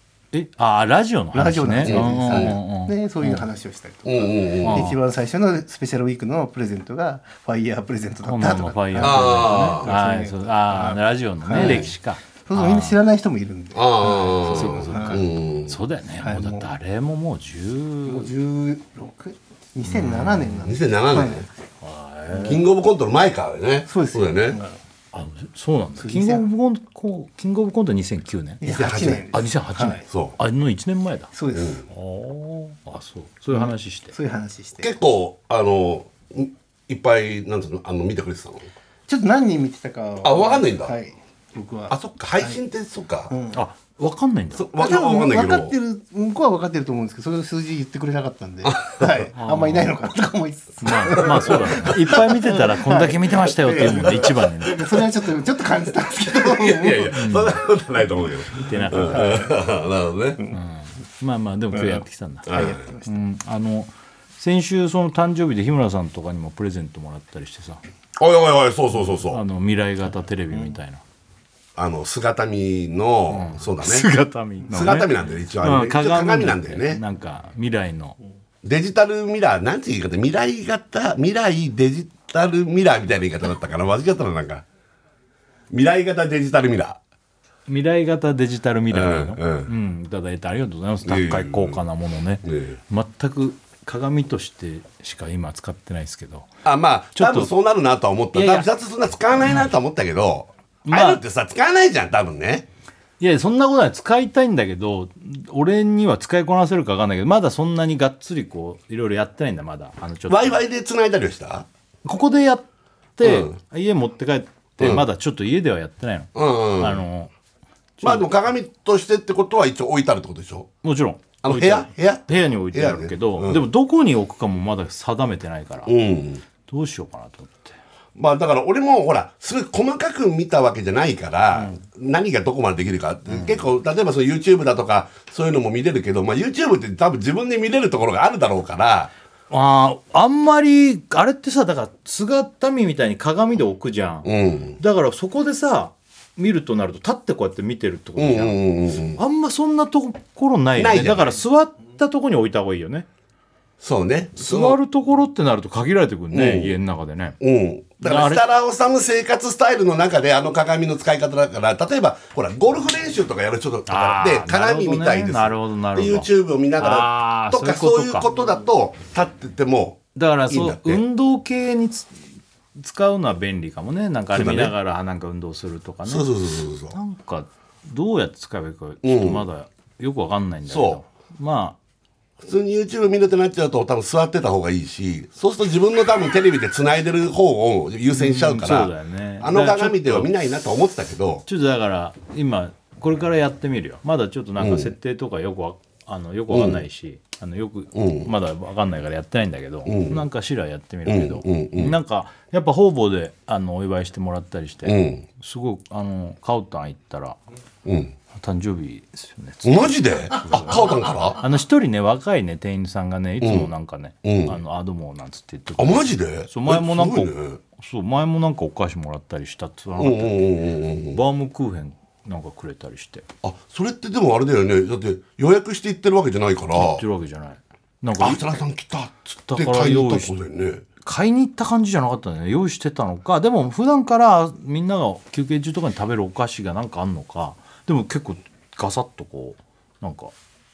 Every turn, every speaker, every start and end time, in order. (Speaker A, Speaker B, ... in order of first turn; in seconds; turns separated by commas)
Speaker A: 0.3-3.4, Speaker B: 1.3-11.9, Speaker C: 1.8-2.6, Speaker C: 4.0-4.9, Speaker A: 4.6-5.0, Speaker A: 8.2-13.0, Speaker C: 9.0-9.9, Speaker C: 11.5-11.9, Speaker B: 12.5-15.2, Speaker C: 13.7-15.8, Speaker A: 14.5-18.3, Speaker B: 16.2-16.7, Speaker B: 18.1-21.5, Speaker A: 19.8-20.7, Speaker C: 20.6-21.5, Speaker A: 21.8-22.6, Speaker B: 22.3-22.6, Speaker C: 22.4-24.6, Speaker B: 23.9-24.8, Speaker A: 25.1-31.3, Speaker B: 26.0-26.5, Speaker B: 28.6-30.1, Speaker C: 28.6-29.3, Speaker C: 30.1-30.4, Speaker B: 31.3-31.8, Speaker C: 31.5-31.8, Speaker A: 31.9-34.1, Speaker B: 33.6-34.9, Speaker C: 34.8-38.7, Speaker B: 39.1-42.6, Speaker C: 40.2-41.0, Speaker C: 41.9-43.3, Speaker B: 43.3-43.6, Speaker A: 43.5-44.7, Speaker C: 44.5-45.8, Speaker B: 44.8-57.2, Speaker C: 48.6-49.2, Speaker A: 49.4-49.9, Speaker A: 50.8-54.8, Speaker C: 51.2-52.2, Speaker C: 53.5-54.5, Speaker C: 56.2-60.4, Speaker A: 57.1-57.6, Speaker A: 58.6-59.5, Speaker B: 58.9-59.5, Speaker A: 60.5-67.8, Speaker B: 61.8-63.2, Speaker C: 62.5-62.8, Speaker C: 68.2-69.4, Speaker A: 69.3-71.0, Speaker C: 71.8-74.1, Speaker A: 73.3-78.2, Speaker C: 74.7-77.0, Speaker C: 78.6-84.6, Speaker C: 85.7-87.0, Speaker A: 87.7-96.5, Speaker C: 88.9-89.7, Speaker C: 91.0-91.8, Speaker C: 92.4-92.8, Speaker C: 96.6-102.7, Speaker A: 97.2-97.5, Speaker A: 98.3-98.7, Speaker A: 100.9-101.2, Speaker A: 103.2-110.6, Speaker C: 110.3-111.7, Speaker A: 112.0-112.7, Speaker A: 113.2-117.3, Speaker C: 113.2-113.6, Speaker C: 114.8-115.1, Speaker C: 116.3-117.0, Speaker A: 118.0-118.3, Speaker C: 118.0-120.7, Speaker A: 120.8-125.9, Speaker C: 121.4-123.7, Speaker C: 125.9-126.5, Speaker A: 126.7-127.8, Speaker C: 128.2-139.1, Speaker A: 133.3-133.6, Speaker A: 139.5-148.6, Speaker C: 144.2-144.8, Speaker C: 148.2-149.2, Speaker A: 149.1-153.1, Speaker C: 150.8-151.4, Speaker C: 153.8-154.8, Speaker A: 154.4-157.4, Speaker C: 156.3-156.8, Speaker C: 157.4-171.0, Speaker A: 158.0-158.4, Speaker A: 163.9-168.3, Speaker A: 170.2-172.2, Speaker A: 172.8-176.3, Speaker C: 174.3-174.8, Speaker C: 176.1-177.0, Speaker A: 176.9-181.8, Speaker C: 179.0-179.4, Speaker C: 180.7-181.0, Speaker C: 182.4-191.4, Speaker A: 188.1-190.3, Speaker A: 191.5-207.4, Speaker C: 194.6-194.9, Speaker C: 196.5-196.8, Speaker C: 197.9-198.3, Speaker C: 199.8-200.2, Speaker C: 201.1-202.0, Speaker C: 204.8-205.2, Speaker C: 207.8-208.1, Speaker A: 208.3-220.4, Speaker C: 209.6-211.4, Speaker C: 213.4-213.7, Speaker C: 214.2-214.6, Speaker C: 215.8-217.6, Speaker C: 220.0-221.2, Speaker A: 221.1-223.2, Speaker C: 223.4-227.0, Speaker A: 226.8-228.6, Speaker C: 228.2-230.8, Speaker A: 229.5-230.4, Speaker A: 231.0-240.3